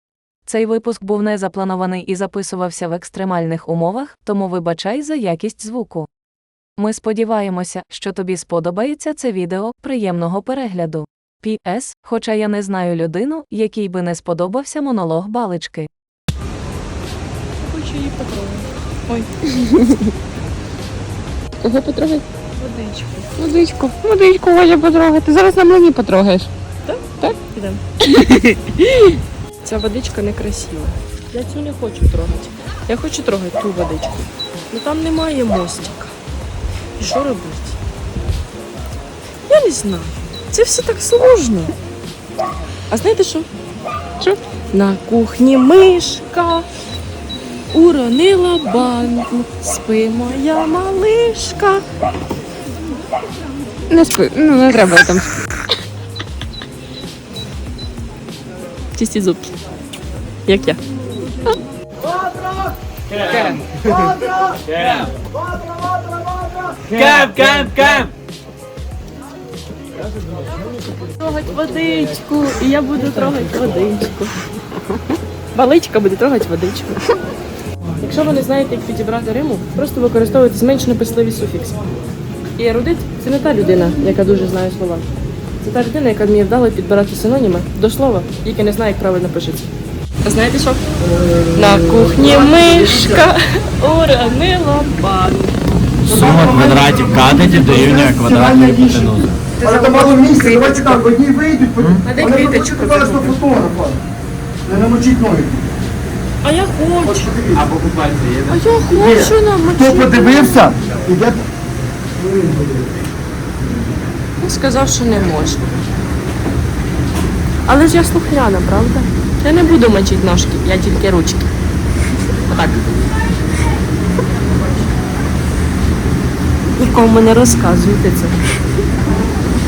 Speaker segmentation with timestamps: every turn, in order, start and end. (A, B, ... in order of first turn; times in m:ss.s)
0:00.5-0:06.1 A
0:06.8-0:15.9 A
0:17.6-0:19.3 B
0:21.6-0:22.2 C
0:22.6-0:23.3 B
0:23.4-0:26.5 C
0:26.9-0:27.8 B
0:28.1-0:28.4 C
0:29.6-0:34.2 B
0:34.7-0:36.1 B
0:37.0-0:37.8 B
0:39.5-0:41.7 B
0:42.9-0:43.5 B
0:44.7-0:46.6 B
0:47.7-0:51.8 B
0:53.9-0:55.3 C
0:59.0-0:59.5 B
1:00.5-1:00.8 B
1:11.2-1:14.4 B
1:15.5-1:17.0 B
1:18.0-1:21.8 B
1:22.6-1:25.1 B
1:25.6-1:29.7 B
1:30.2-1:30.8 B
1:31.3-1:33.2 D
1:31.6-1:35.6 B
1:36.1-1:39.4 E
1:36.1-1:44.0 D
1:39.6-1:40.8 B
1:41.8-1:42.1 E
1:42.0-1:43.4 B
1:44.7-1:45.7 D
1:46.4-1:47.3 B
1:47.3-1:47.6 D
1:47.6-1:48.4 E
1:48.5-1:50.7 B
1:49.0-1:51.4 D
1:54.4-1:55.6 B
1:57.7-2:01.5 B
2:02.5-2:02.8 B
2:06.8-2:08.4 B